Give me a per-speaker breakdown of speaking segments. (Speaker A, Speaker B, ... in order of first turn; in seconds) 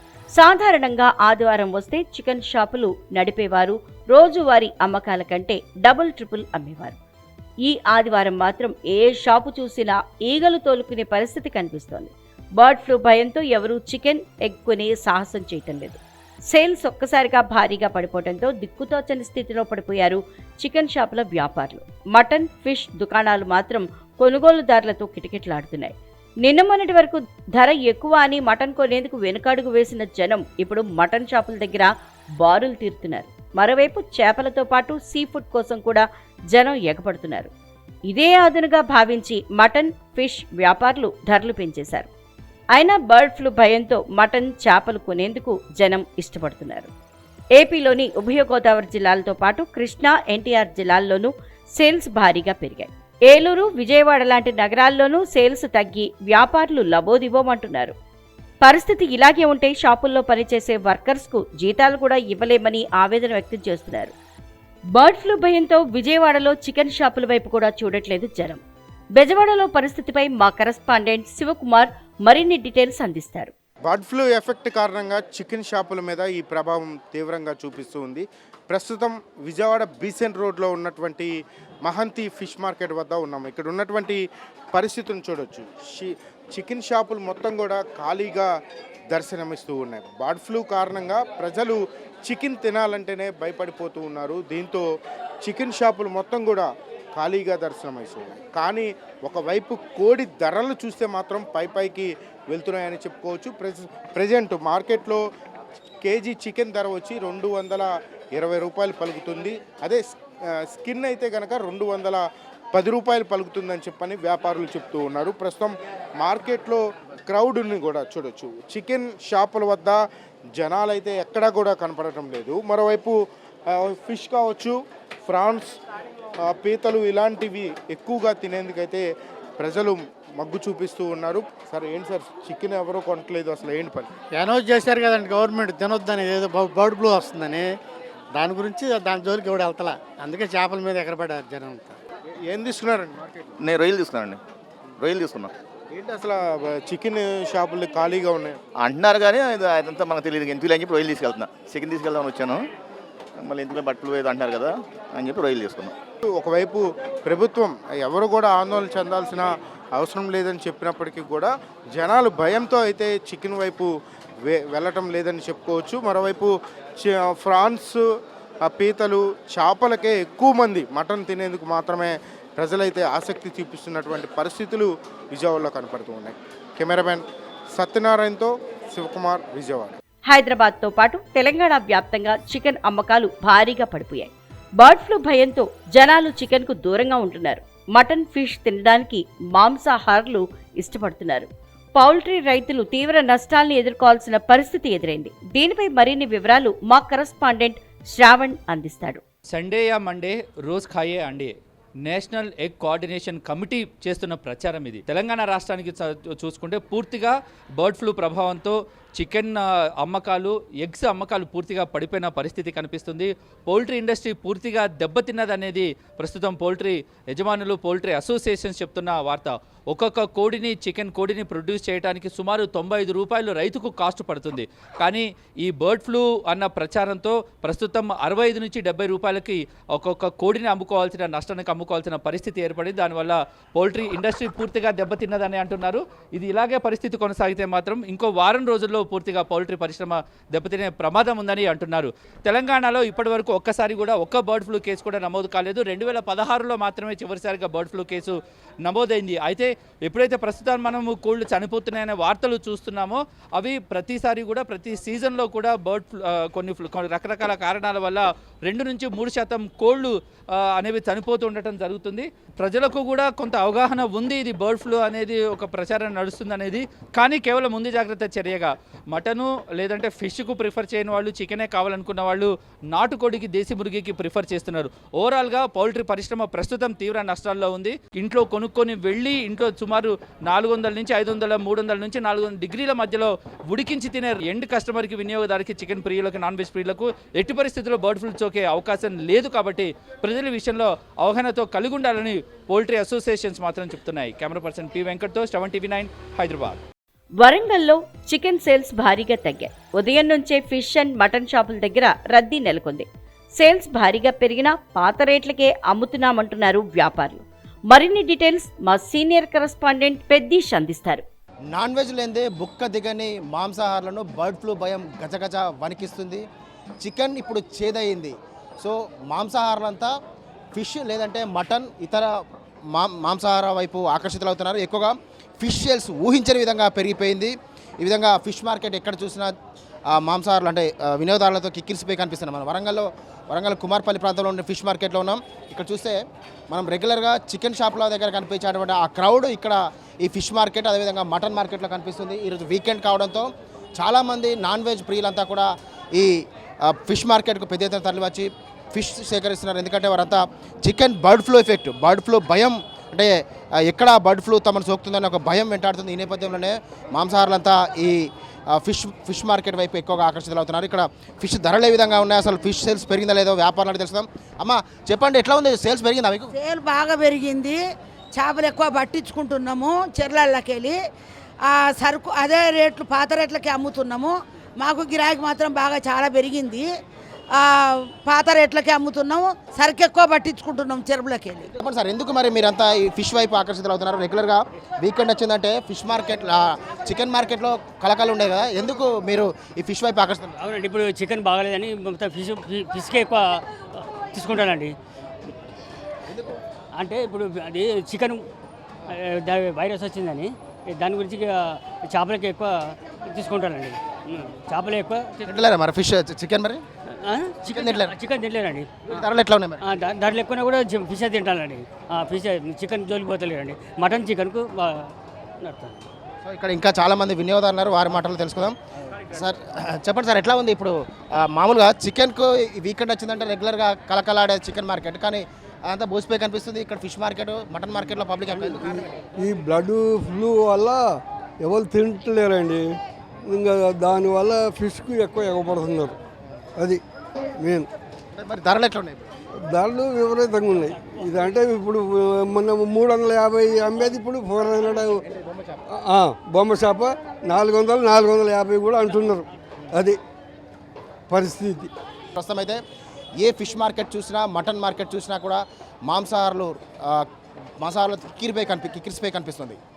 Speaker A: 0.3-7.0, 7.7-16.0, 16.5-25.9, 26.4-31.9, 32.4-37.5, 38.1-42.1, 42.7-46.9, 47.6-57.9, 58.6-64.1, 65.0-68.6, 69.2-73.5, 180.3-199.2, 297.4-303.1, 303.6-311.2
Speaker B: 73.9-81.3, 81.9-84.2, 84.7-88.5, 89.1-94.8, 95.4-105.2, 106.0-110.0, 110.6-112.2, 112.7-120.0, 120.6-123.2, 123.7-125.7, 126.4-129.0, 129.6-134.1, 142.5-143.5, 145.9-148.6, 156.3-163.9, 164.4-168.0, 168.7-177.2, 177.8-180.0
Speaker C: 134.3-137.8, 138.3-142.0
Speaker D: 143.6-144.4, 145.0-145.5, 148.8-152.6, 153.4-155.9
Speaker E: 199.5-201.5, 202.1-296.8
Speaker F: 311.7-316.4, 317.0-320.1, 320.7-322.3, 322.9-329.5, 330.1-336.2, 336.7-366.5, 381.8-390.5, 396.3-396.5, 405.4-406.8, 407.7-408.1, 409.1-409.8, 416.4-418.8, 419.3-429.2, 438.3-439.3, 452.4-452.8, 453.4-457.3, 457.8-459.8
Speaker G: 366.6-367.8, 368.3-371.0, 371.6-376.9, 377.5-381.7
Speaker H: 390.6-394.9, 397.0-398.4, 399.1-405.5, 407.2-409.2, 409.8-416.1
Speaker I: 429.4-431.0, 431.6-436.2, 436.8-437.9, 439.6-445.2, 445.9-450.2, 451.3-451.9